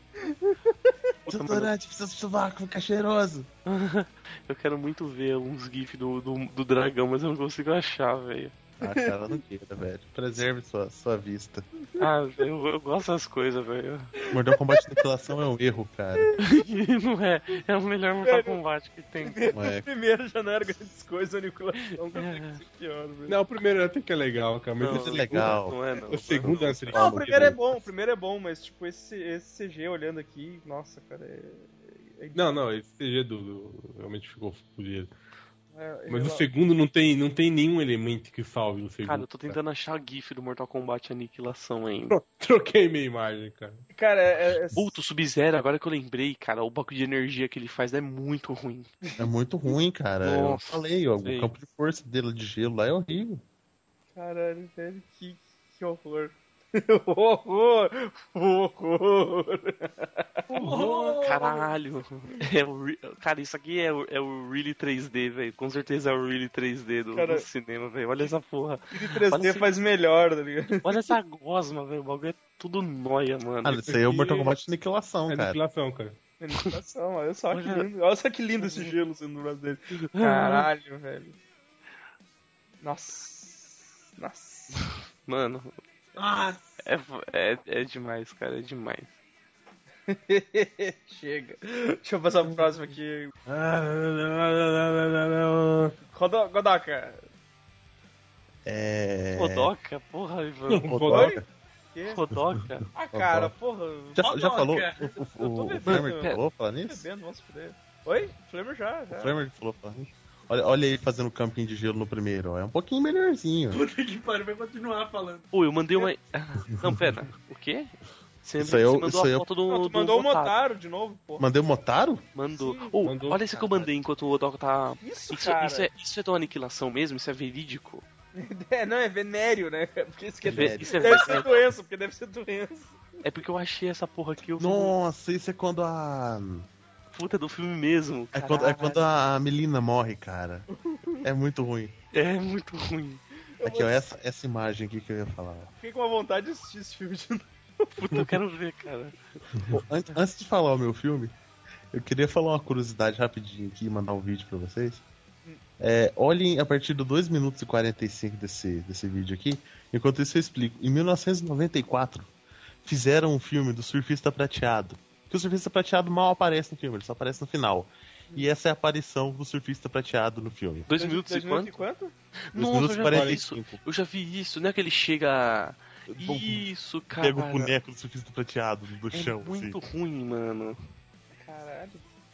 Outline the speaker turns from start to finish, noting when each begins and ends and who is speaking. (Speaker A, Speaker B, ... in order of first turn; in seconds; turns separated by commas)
Speaker A: 0.2-1.1, Speaker B: 1.3-1.7, Speaker C: 1.3-3.5, Speaker B: 3.7-8.5, Speaker C: 8.8-11.7, Speaker A: 8.9-9.4, Speaker B: 12.0-14.1, Speaker C: 14.3-16.3, Speaker A: 16.2-16.6, Speaker B: 16.4-19.4, Speaker A: 18.2-18.6, Speaker A: 19.2-23.4, Speaker C: 19.5-19.9, Speaker B: 22.1-22.6, Speaker D: 23.3-27.8, Speaker B: 24.8-26.9, Speaker C: 24.9-25.8, Speaker C: 26.4-27.6, Speaker A: 26.9-32.6, Speaker D: 32.3-35.1, Speaker A: 35.7-36.5, Speaker D: 36.1-39.6, Speaker B: 39.0-42.1, Speaker D: 42.1-43.8, Speaker A: 43.9-44.9, Speaker B: 44.8-48.9, Speaker C: 49.2-53.4, Speaker B: 50.2-51.5, Speaker A: 54.2-60.5, Speaker B: 60.5-69.7, Speaker E: 60.5-61.7, Speaker A: 67.1-67.5, Speaker A: 68.9-71.1, Speaker B: 70.8-73.8, Speaker C: 73.6-75.6, Speaker D: 73.9-74.5, Speaker D: 75.3-76.2, Speaker A: 76.4-81.4, Speaker B: 77.5-77.9, Speaker B: 78.6-78.9, Speaker B: 80.2-80.7, Speaker A: 82.8-84.8, Speaker B: 84.7-85.8, Speaker E: 86.2-86.7, Speaker B: 86.8-89.1, Speaker A: 90.1-93.3, Speaker D: 93.5-96.0, Speaker A: 96.1-97.2, Speaker C: 98.7-99.7, Speaker B: 99.3-100.9, Speaker D: 100.7-101.3, Speaker C: 100.8-101.4, Speaker A: 101.1-101.4, Speaker A: 101.9-102.2, Speaker B: 102.1-102.9, Speaker A: 103.0-104.2, Speaker C: 103.1-103.5, Speaker C: 104.1-107.0, Speaker E: 104.2-105.1, Speaker A: 105.3-106.3, Speaker B: 105.9-106.4, Speaker A: 106.9-109.4, Speaker C: 109.1-113.8, Speaker E: 113.7-115.5, Speaker B: 115.5-120.5, Speaker C: 118.6-119.5, Speaker A: 119.7-121.5, Speaker C: 121.4-122.3, Speaker B: 122.3-128.1, Speaker A: 122.5-122.9, Speaker D: 123.0-123.8, Speaker A: 125.0-125.9, Speaker A: 128.4-133.0, Speaker C: 130.4-131.5, Speaker B: 130.5-131.6, Speaker B: 133.2-134.9, Speaker C: 134.6-136.7, Speaker B: 137.1-139.0, Speaker C: 138.3-140.7, Speaker A: 140.8-141.2, Speaker C: 141.2-141.9, Speaker B: 142.1-143.2, Speaker A: 143.6-144.1, Speaker C: 143.6-145.7, Speaker A: 145.8-148.3, Speaker B: 148.0-149.8, Speaker C: 149.7-151.3, Speaker C: 151.9-155.0, Speaker C: 155.8-162.3, Speaker C: 162.8-170.9, Speaker B: 170.9-171.8, Speaker A: 171.0-172.1, Speaker B: 172.5-177.7, Speaker C: 172.6-173.8, Speaker D: 173.1-173.4, Speaker C: 176.1-176.7, Speaker C: 177.2-179.8, Speaker B: 179.1-180.8, Speaker A: 181.3-182.0